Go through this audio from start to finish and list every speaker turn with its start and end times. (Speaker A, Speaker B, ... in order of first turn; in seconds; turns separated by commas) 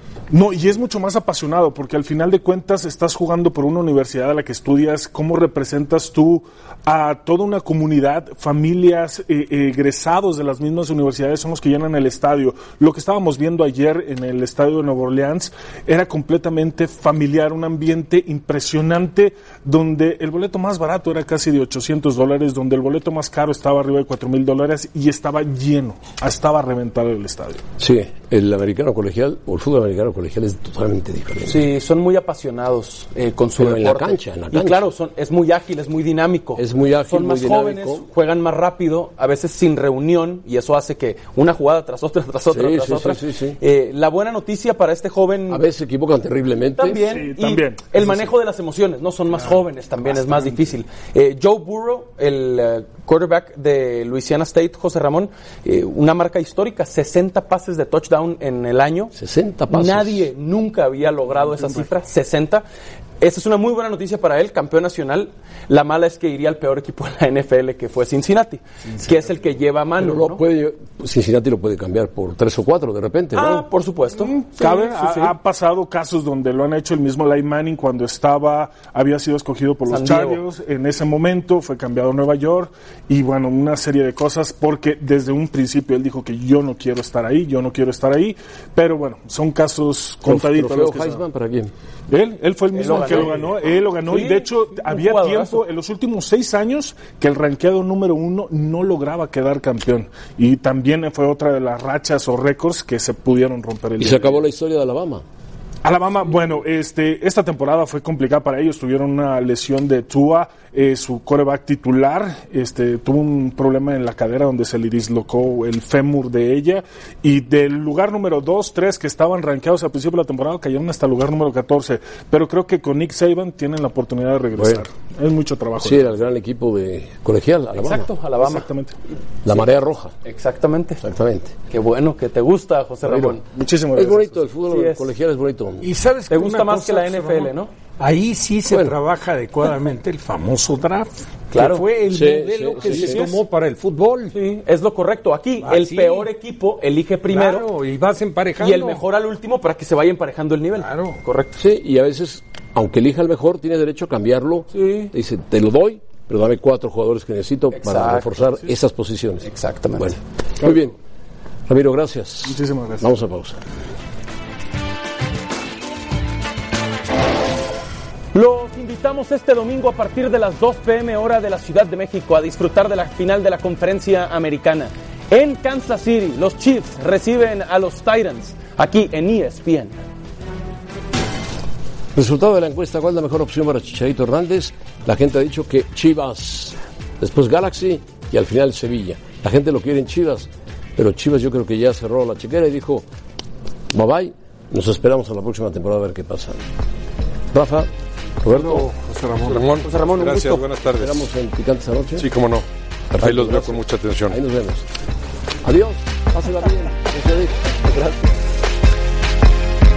Speaker A: 0.3-27.6, Speaker B: 27.8-31.7, Speaker C: 31.5-45.6, Speaker B: 33.6-34.9, Speaker B: 36.6-38.0, Speaker B: 42.5-43.6, Speaker B: 45.5-47.1, Speaker C: 46.8-59.1, Speaker A: 47.0-48.2, Speaker A: 50.1-50.7, Speaker B: 59.1-60.3, Speaker C: 59.7-62.7, Speaker C: 63.2-70.4, Speaker B: 70.0-73.7, Speaker C: 73.3-75.3, Speaker A: 74.2-91.2, Speaker C: 79.9-80.4, Speaker B: 90.2-91.7, Speaker A: 92.1-104.4, Speaker C: 92.7-95.6, Speaker B: 104.0-105.2, Speaker A: 105.8-126.1, Speaker B: 124.6-124.9, Speaker B: 125.8-128.1, Speaker C: 127.8-128.7, Speaker A: 128.4-129.0, Speaker B: 129.4-130.1, Speaker C: 130.2-131.0, Speaker B: 131.0-131.6, Speaker C: 131.7-133.4, Speaker B: 133.1-133.4, Speaker A: 133.4-134.5, Speaker B: 133.9-135.9, Speaker C: 134.7-135.1, Speaker D: 135.8-144.3, Speaker C: 136.3-137.7, Speaker B: 138.7-139.0, Speaker C: 141.5-141.9, Speaker B: 142.1-143.3, Speaker C: 142.7-143.4, Speaker C: 144.3-147.7, Speaker D: 145.6-146.3, Speaker D: 147.3-149.0, Speaker C: 148.6-151.6, Speaker D: 150.8-151.2, Speaker B: 151.6-161.0, Speaker C: 154.7-155.1, Speaker C: 157.7-158.6, Speaker C: 159.4-160.2, Speaker B: 161.7-163.6, Speaker A: 162.4-163.1, Speaker C: 168.3-180.0, Speaker B: 182.2-193.1, Speaker B: 193.9-196.6, Speaker B: 197.5-197.9, Speaker B: 198.4-198.9, Speaker D: 198.6-199.7, Speaker E: 199.2-201.3, Speaker C: 199.8-200.7, Speaker B: 201.0-202.3, Speaker E: 202.2-202.7, Speaker B: 203.1-204.9, Speaker E: 203.2-204.4, Speaker B: 205.6-207.8, Speaker C: 207.9-208.2